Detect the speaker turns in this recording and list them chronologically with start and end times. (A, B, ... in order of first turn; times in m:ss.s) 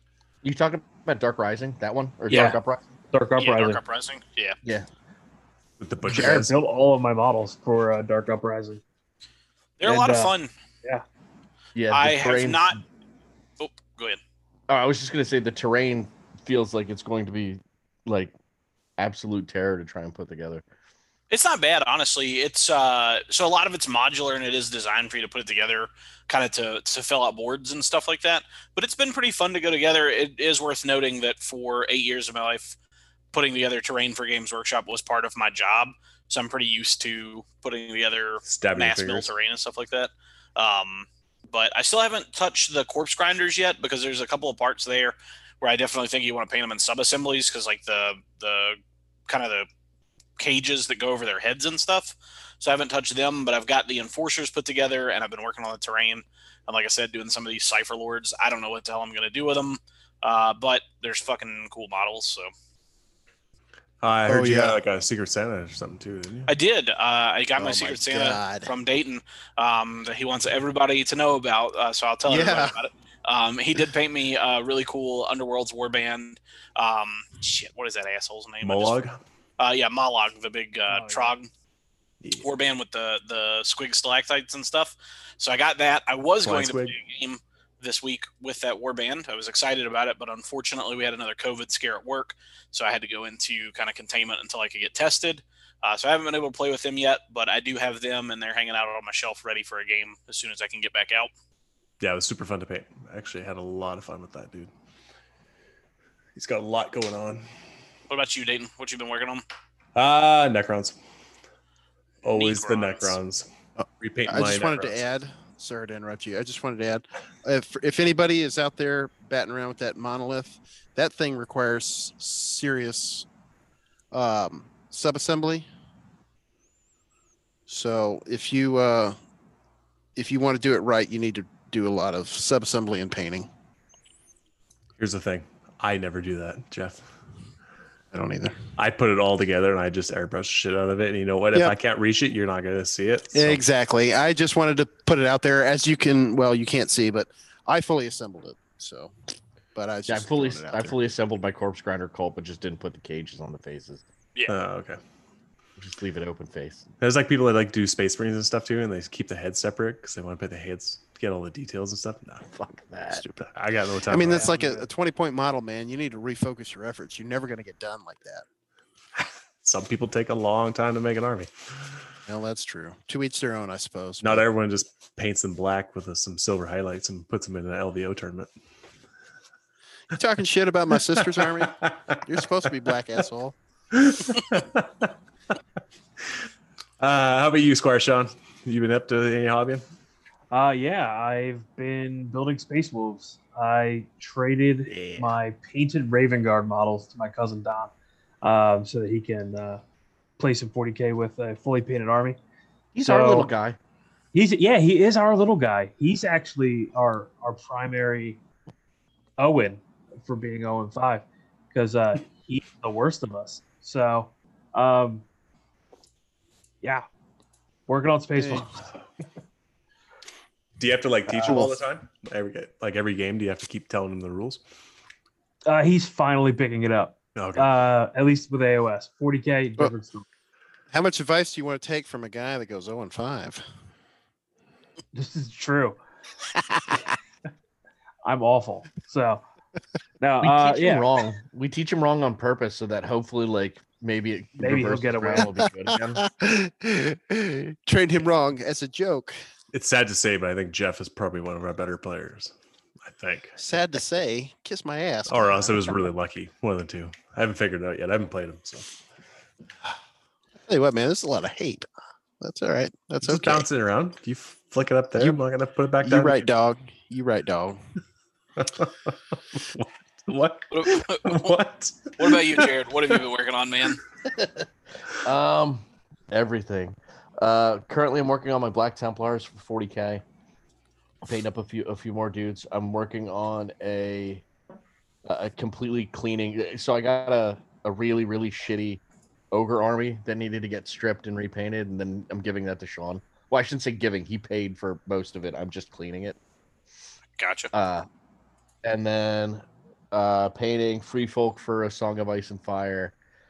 0:00.4-0:02.9 A
0:02.3-0:02.6 B
0:03.1-0:03.8 B
0:03.4-0:04.6 C
0:05.8-0:06.5 D
0:06.1-0:06.5 A
0:06.1-0:08.8 B
0:09.8-0:10.5 C
0:09.8-0:11.0 B
0:11.7-0:12.8 A
0:11.9-0:12.8 C
0:13.6-0:14.2 C
0:14.7-0:18.3 A
0:19.0-0:20.6 A
0:21.3-0:32.8 C
0:33.3-0:49.7 C
0:38.4-0:39.3 D
0:50.4-1:02.5 C
1:04.0-1:06.5 D
1:04.3-1:04.8 E
1:06.5-1:19.0 C
1:07.6-1:08.7 E
1:12.2-1:12.7 E
1:18.6-1:19.2 D
1:19.6-1:21.5 C
1:20.9-1:21.3 B
1:22.4-1:41.3 C
1:26.4-1:27.0 D
1:42.0-1:44.7 D
1:46.4-1:47.5 D
1:48.1-1:49.4 C
1:49.9-1:51.0 D
1:52.2-1:53.5 D
1:52.3-1:53.2 C
1:53.8-2:03.2 E
1:54.0-1:55.0 D
2:04.1-2:05.7 E
2:07.7-2:09.2 E
2:10.2-2:13.5 E
2:15.0-2:17.1 D
2:18.1-2:18.6 E
2:18.8-2:23.6 D
2:23.3-2:29.1 E
2:29.7-2:31.0 E
2:30.1-2:34.0 A
2:34.5-2:35.0 D
2:35.8-2:36.8 A
2:37.0-2:42.4 D
2:42.5-2:43.2 A
2:43.1-2:44.5 D
2:44.1-2:48.4 E
2:44.4-2:44.8 B
2:49.2-2:51.5 D
2:52.3-2:54.4 E
2:54.2-2:58.5 D
3:00.1-3:03.6 E
3:01.2-3:02.2 D
3:03.9-3:05.1 D
3:07.0-3:09.8 D
3:10.5-3:19.8 B
3:20.4-3:22.4 B
3:22.9-3:23.8 A
3:23.0-3:23.5 B
3:24.3-3:28.4 B
3:29.4-3:35.2 B
3:37.9-3:38.8 B
3:38.4-3:38.7 E
3:40.8-3:44.6 D
3:41.3-3:41.7 E
3:45.6-3:50.2 B
3:47.4-3:47.7 D
3:50.9-3:53.6 E
3:55.1-3:56.0 B
3:58.2-3:59.4 B
4:00.2-4:01.1 B
4:00.4-4:06.2 A
4:04.6-4:05.6 B
4:06.2-4:09.4 E
4:09.7-4:12.5 D
4:13.0-4:13.5 D
4:13.6-4:16.0 E
4:15.3-4:18.8 D
4:20.6-4:21.9 E
4:22.4-4:23.6 E
4:23.2-4:26.5 D
4:26.0-4:27.8 E
4:28.6-4:32.7 D
4:30.7-4:31.5 C
4:32.2-4:34.0 C
4:35.2-4:40.2 A
4:41.2-4:44.4 A
4:45.2-4:56.4 A
4:57.4-4:57.7 C
4:57.7-4:58.1 A
4:58.8-5:03.1 A